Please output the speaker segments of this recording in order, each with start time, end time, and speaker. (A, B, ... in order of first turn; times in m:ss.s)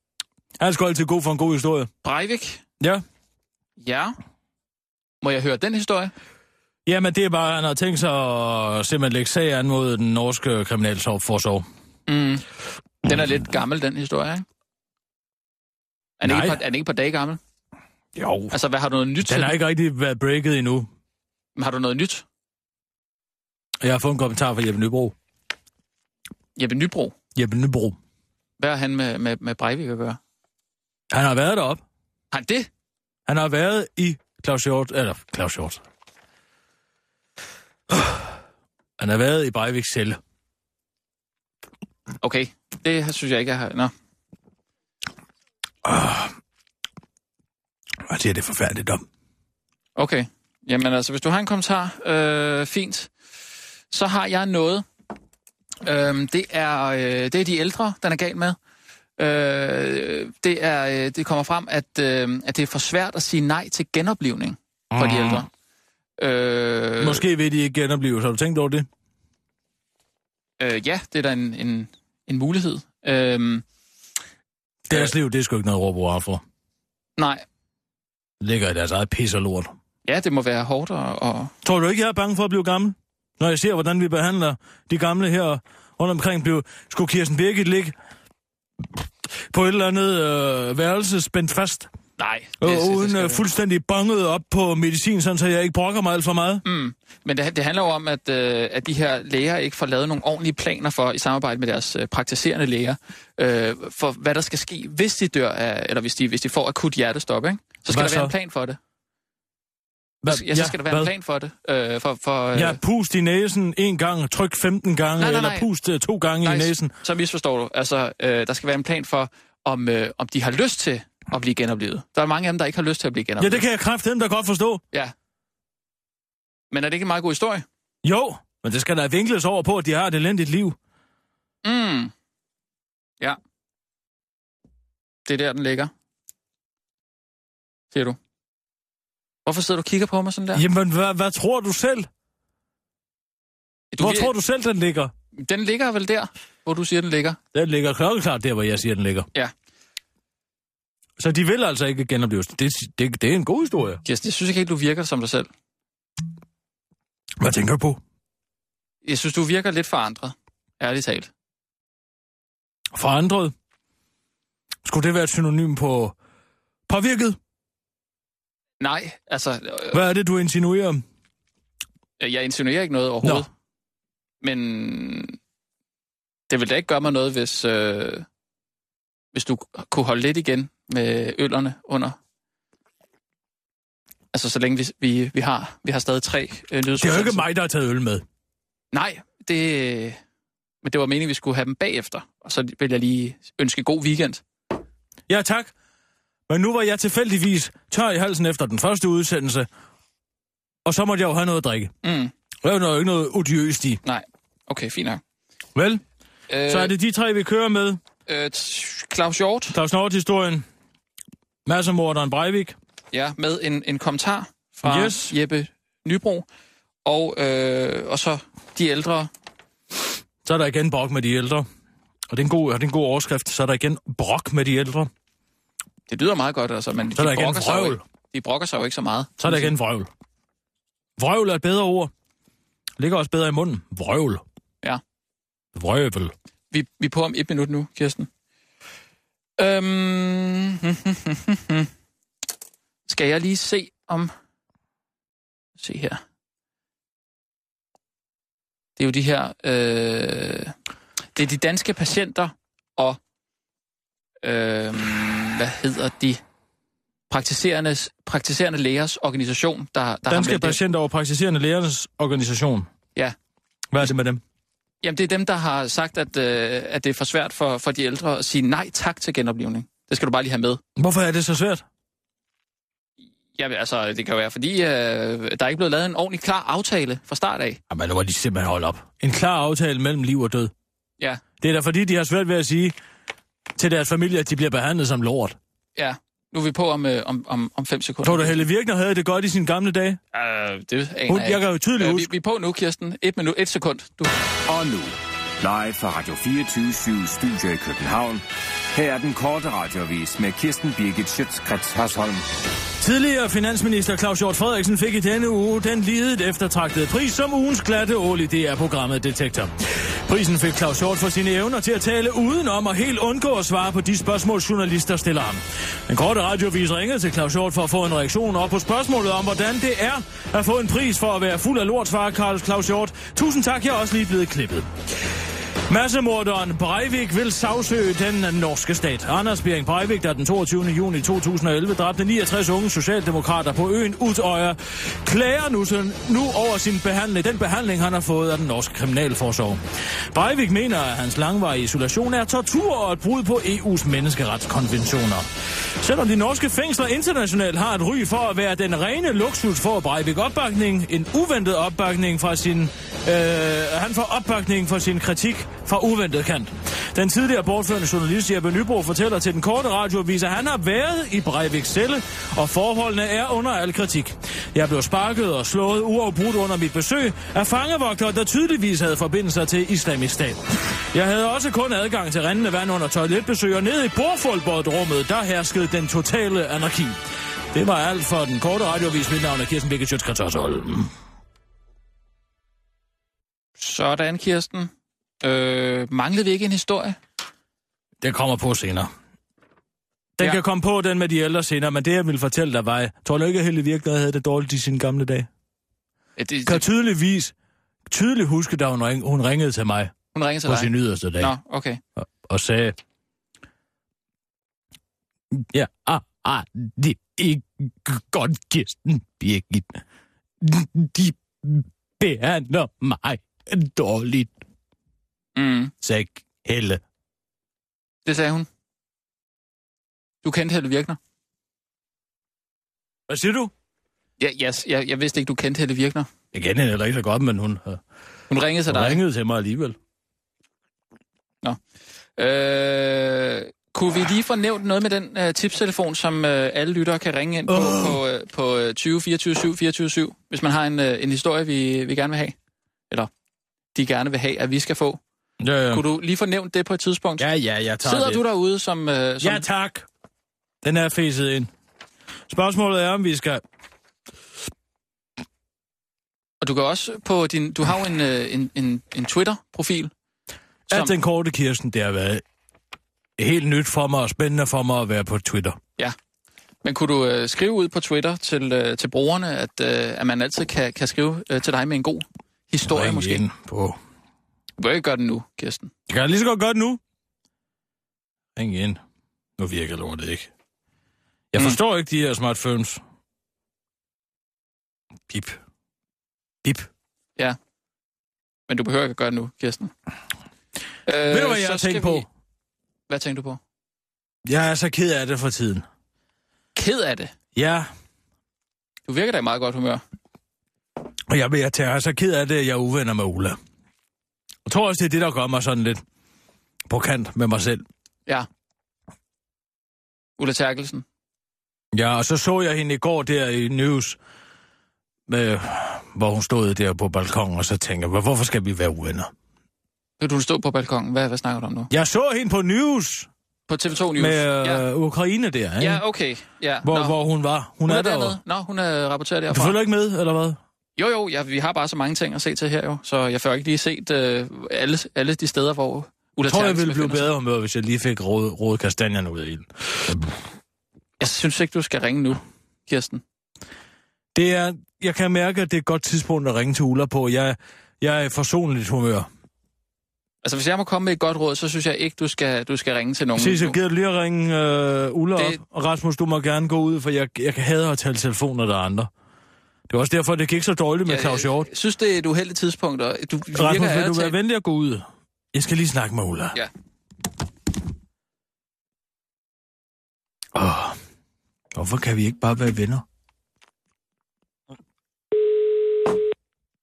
0:00.6-0:01.9 A
0:02.0-0:02.6 B
0:03.8-0:04.1 B
0:05.2-0:06.1 B
0:06.9-0:11.7 A
0:12.1-0:12.4 B
0:13.0-0:14.4 B
0:16.2-0:17.4 B
0:16.2-0:16.6 A
0:18.2-0:18.6 A
0:18.5-0:19.6 B
0:19.2-0:20.9 A
0:21.6-0:22.2 B
0:23.8-0:25.2 A
0:26.6-0:27.2 B
0:27.4-0:28.0 A
0:28.6-0:30.2 B
0:31.1-0:31.8 A
0:32.3-0:32.7 B
0:33.3-0:35.8 A
0:37.9-0:38.3 A
0:39.0-0:40.2 A
0:42.2-0:43.9 B
0:45.8-0:46.3 A
0:48.1-0:49.0 A
0:50.0-0:53.1 B
0:53.9-0:54.8 B
0:55.8-0:58.6 B
0:59.2-1:05.5 B
1:04.9-1:05.4 A
1:06.2-1:07.2 B
1:07.0-1:08.9 A
1:10.6-1:13.6 B
1:14.9-1:16.4 A
1:17.2-1:17.4 B
1:18.4-1:19.7 A
1:20.0-1:21.5 B
1:21.6-1:27.9 A
1:29.0-1:31.9 A
1:32.2-1:33.5 B
1:32.6-1:36.6 A
1:36.6-1:48.8 B
1:47.9-1:48.3 A
1:50.2-1:51.1 A
1:50.3-1:52.8 B
1:52.5-1:56.9 A
1:55.2-1:55.7 B
1:56.4-2:03.6 B
2:03.4-2:04.8 A
2:06.7-2:07.6 B
2:08.0-2:10.8 A
2:11.6-2:12.1 B
2:15.3-2:15.9 B
2:17.9-2:18.2 B
2:19.5-2:20.6 B
2:20.5-2:22.1 A
2:23.9-2:24.3 B
2:24.0-2:25.1 A
2:25.4-2:27.4 B
2:27.5-2:29.3 A
2:31.2-2:34.0 A
2:34.0-2:35.5 B
2:37.4-2:38.0 A
2:39.0-2:41.3 B
2:42.9-2:43.5 A
2:44.8-2:46.2 A
2:46.9-2:47.4 A
2:48.8-2:50.0 B
2:49.9-2:51.0 A
2:52.2-2:53.5 B
2:54.4-2:55.4 B
2:56.5-2:58.3 B
2:59.3-3:02.2 B
3:04.3-3:07.5 B
3:07.0-3:08.2 A
3:08.9-3:10.2 B
3:10.8-3:14.4 B
3:15.3-3:15.7 A
3:16.5-3:19.7 A
3:20.8-3:21.9 A
3:22.0-3:22.3 B
3:22.6-3:24.0 A
3:24.0-3:25.2 B
3:25.8-3:26.0 A
3:26.5-3:26.9 B
3:26.7-3:28.0 A
3:28.3-3:29.8 B
3:29.7-3:30.6 A
3:31.6-3:32.8 A
3:33.1-3:36.5 B
3:34.8-3:35.3 A
3:37.0-3:39.3 B
3:40.4-3:41.7 A
3:42.3-3:45.1 A
3:46.1-3:49.7 B
3:47.2-3:48.0 A
3:49.4-3:50.1 A
3:51.2-3:52.1 A
3:53.0-3:54.4 A
3:55.8-3:56.3 A
3:56.7-3:58.3 B
3:59.6-4:01.9 B
4:03.1-4:04.3 B
4:05.8-4:06.2 B
4:09.0-4:10.7 B
4:11.4-4:13.2 B
4:14.4-4:16.4 B
4:17.3-4:20.8 B
4:20.3-4:22.9 A
4:23.9-4:24.4 A
4:25.0-4:30.8 B
4:31.0-4:31.8 A
4:33.6-4:37.8 B
4:37.9-4:40.7 A
4:41.6-4:43.0 A
4:43.8-4:45.6 A
4:46.0-4:48.6 B
4:48.2-4:50.2 A
4:50.3-4:54.3 B
4:51.3-4:52.3 A
4:54.7-5:02.5 C
5:03.0-5:24.9 A
5:25.9-5:39.8 A
5:40.3-5:45.5 A
5:46.0-6:17.2 A
6:17.7-6:21.1 A
6:23.8-6:27.2 B
6:28.2-6:29.1 A
6:30.4-6:35.5 A
6:36.4-6:36.8 B
6:36.7-6:37.5 A
6:38.1-6:40.2 A
6:40.3-6:42.0 B
6:40.7-6:41.5 A
6:42.2-6:43.0 A
6:45.5-6:50.0 A
6:50.6-6:54.5 A
6:55.6-6:55.9 B
6:56.0-6:57.0 A
6:58.3-6:58.7 B
7:00.4-7:01.2 B
7:03.3-7:03.7 A
7:04.4-7:06.3 B
7:06.5-7:08.0 A
7:08.5-7:09.2 B
7:08.9-7:10.0 A
7:12.4-7:22.6 B
7:17.7-7:18.2 A
7:24.0-7:25.2 B
7:25.6-7:26.0 A
7:25.9-7:27.5 B
7:27.4-7:28.4 A
7:28.0-7:29.6 B
7:29.4-7:30.1 A
7:30.8-7:31.7 A
7:32.5-7:33.6 A
7:36.6-7:40.1 B
7:40.9-7:41.2 B
7:40.9-7:42.4 A
7:43.4-7:45.8 A
7:46.8-7:53.5 B
7:52.9-7:54.0 A
7:54.8-7:55.9 B
7:56.1-7:57.0 A
7:58.6-7:59.0 A
7:59.6-8:00.5 A
8:01.5-8:03.0 A
8:05.3-8:05.6 A
8:08.7-8:09.9 B
8:11.1-8:12.3 B
8:11.3-8:12.3 A
8:13.1-8:13.6 B
8:14.4-8:15.8 A
8:16.8-8:17.3 B
8:17.6-8:17.9 A
8:19.1-8:20.0 B
8:21.3-8:23.6 A
8:24.7-8:26.0 A
8:26.9-8:27.8 A
8:30.4-8:31.0 B
8:31.9-8:34.2 A
8:35.3-8:39.3 A
8:40.2-8:41.9 B
8:41.9-8:43.3 A
8:43.7-8:44.9 B
8:44.2-8:46.0 A
8:45.8-8:47.2 B
8:46.8-8:48.4 A
8:47.8-8:49.8 B
8:49.5-8:50.6 A
8:51.0-8:57.3 B
8:56.4-9:00.3 A
9:01.2-9:03.2 B
9:04.4-9:09.3 A
9:10.4-9:13.8 B
9:13.4-9:19.1 A
9:19.9-9:21.7 A
9:21.1-9:24.4 B
9:23.5-9:26.6 A
9:30.5-9:31.0 A
9:31.7-9:33.0 A